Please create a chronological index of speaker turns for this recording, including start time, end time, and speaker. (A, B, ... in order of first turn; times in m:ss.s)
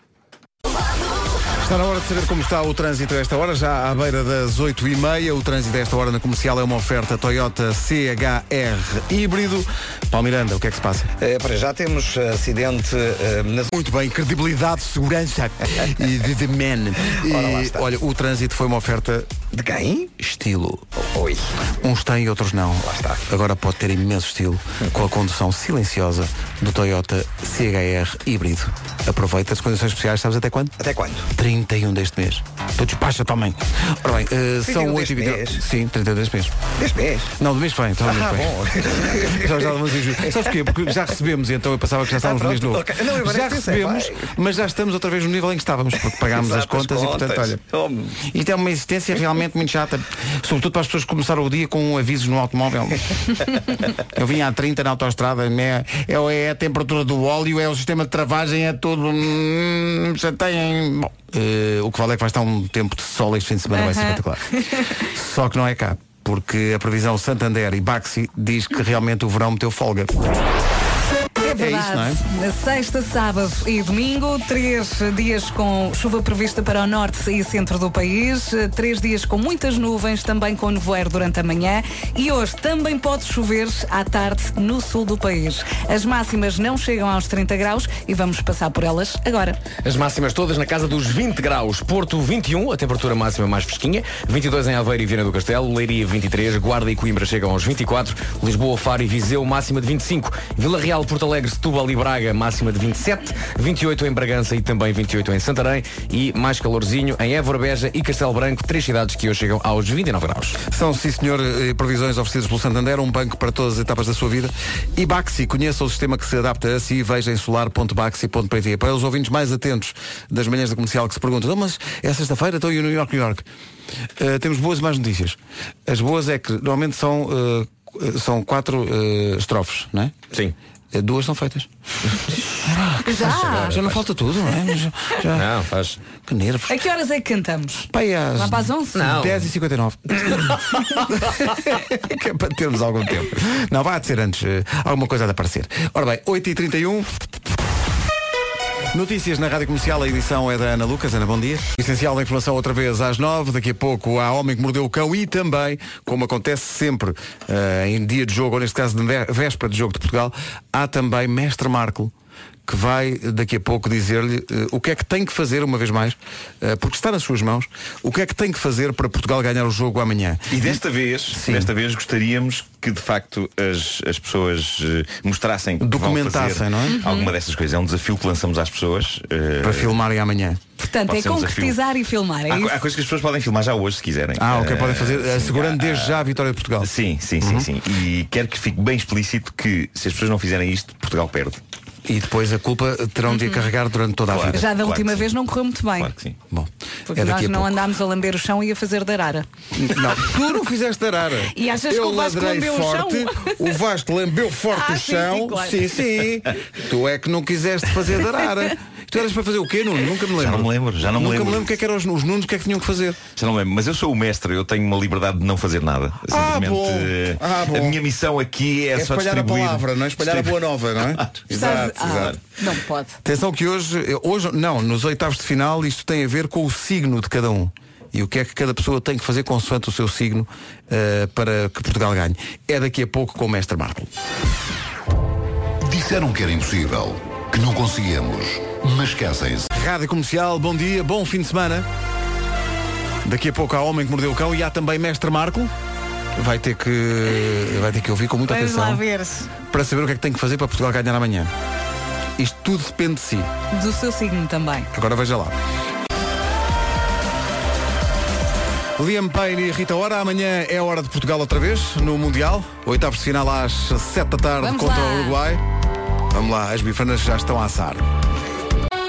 0:01.6-0:11.1 A
0:11.2-0:13.7 B
0:13.7-0:19.3 A
0:17.2-0:17.8 B
0:19.5-0:20.2 B
0:20.2-0:20.8 A
0:21.0-0:21.5 B
0:21.8-0:30.8 A
0:22.8-0:23.2 B
0:30.8-0:31.3 B
0:31.3-0:36.6 A
0:34.6-0:35.6 B
0:36.8-0:37.3 B
0:37.4-0:47.6 A
0:38.0-0:40.5 B
0:42.1-0:44.3 B
0:46.1-0:48.2 B
0:48.2-0:53.4 A
0:54.0-1:10.2 A
1:03.7-1:04.8 C
1:11.4-1:29.6 C
1:11.6-1:12.2 A
1:29.8-1:50.6 D
1:50.7-2:03.4 A
2:04.2-2:10.2 A
2:10.9-2:11.7 A
2:12.6-2:15.5 A
2:13.0-2:13.8 C
2:13.5-2:14.0 D
2:15.3-2:16.0 D
2:16.1-2:16.8 A
2:16.7-2:19.1 C
2:17.9-2:27.3 A
2:18.9-2:19.5 D
2:28.9-2:42.1 A
2:42.6-2:50.8 A
2:50.5-3:00.0 E
2:51.3-2:51.7 A
2:55.8-2:57.0 A
2:56.9-2:57.3 C
2:59.6-3:00.6 A
3:00.8-3:02.8 C
3:01.0-3:01.8 E
3:02.5-3:06.3 E
3:04.4-3:07.7 A
3:06.8-3:11.6 E
3:12.0-3:14.7 A
3:13.3-3:13.7 C
3:14.3-3:15.3 E
3:14.5-3:16.1 C
3:16.0-3:16.4 E
3:16.5-3:17.8 A
3:17.1-3:19.4 C
3:19.7-3:33.2 A
3:21.5-3:23.6 C
3:24.7-3:25.8 C
3:30.4-3:31.7 E
3:33.4-3:42.4 E
3:36.3-3:38.0 A
3:38.9-3:42.4 A
3:41.5-3:43.2 C
3:43.2-3:54.1 A
3:55.9-3:59.7 F
3:59.7-4:01.9 A
4:03.2-4:05.7 A
4:06.3-4:09.0 A
4:08.5-4:09.5 C
4:09.7-4:11.5 A
4:12.4-4:13.5 A
4:13.7-4:14.9 C
4:14.9-4:15.5 A
4:19.0-4:25.6 A
4:24.6-4:25.4 C
4:26.3-4:28.0 A